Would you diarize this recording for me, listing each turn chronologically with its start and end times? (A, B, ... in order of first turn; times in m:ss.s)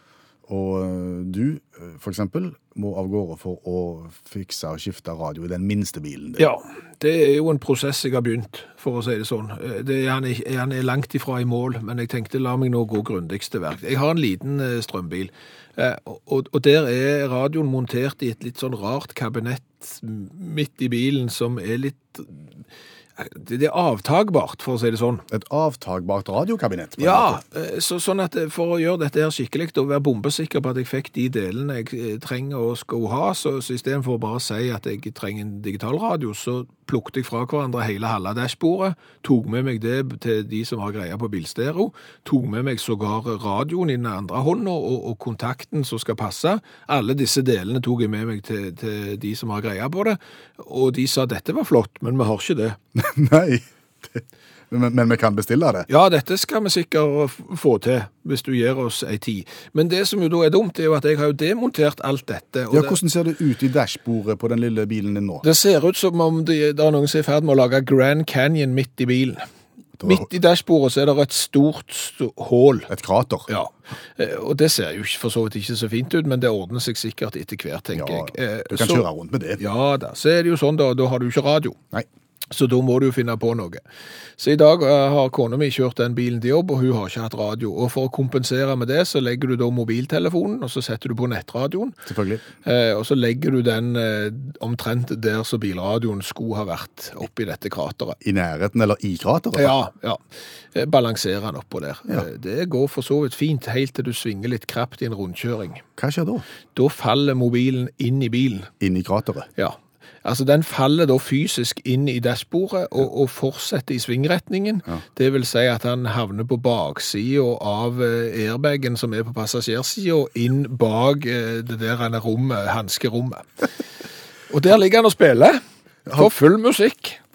0:00.5-0:06.5 A
0:06.4-0:22.6 B
0:23.2-0:25.2 B
0:25.3-0:27.4 A
0:27.0-0:52.8 B
0:53.0-0:55.9 A
0:55.9-1:03.0 B
1:02.7-1:05.4 A
1:05.4-1:09.5 B
1:10.0-1:10.3 A
1:10.0-1:12.9 B
1:12.9-1:13.5 A
1:13.5-1:19.1 B
1:17.9-1:19.6 A
1:19.6-1:21.8 B
1:22.5-1:23.8 B
1:24.4-1:32.0 B
1:32.1-1:32.4 A
1:32.6-1:38.2 B
1:38.2-1:39.8 A
1:39.6-1:40.2 B
1:40.7-1:45.8 B
1:46.0-1:46.4 A
1:46.8-1:48.7 B
1:48.8-1:49.5 A
1:49.6-2:03.7 B
2:04.5-2:07.2 B
2:06.1-2:06.3 A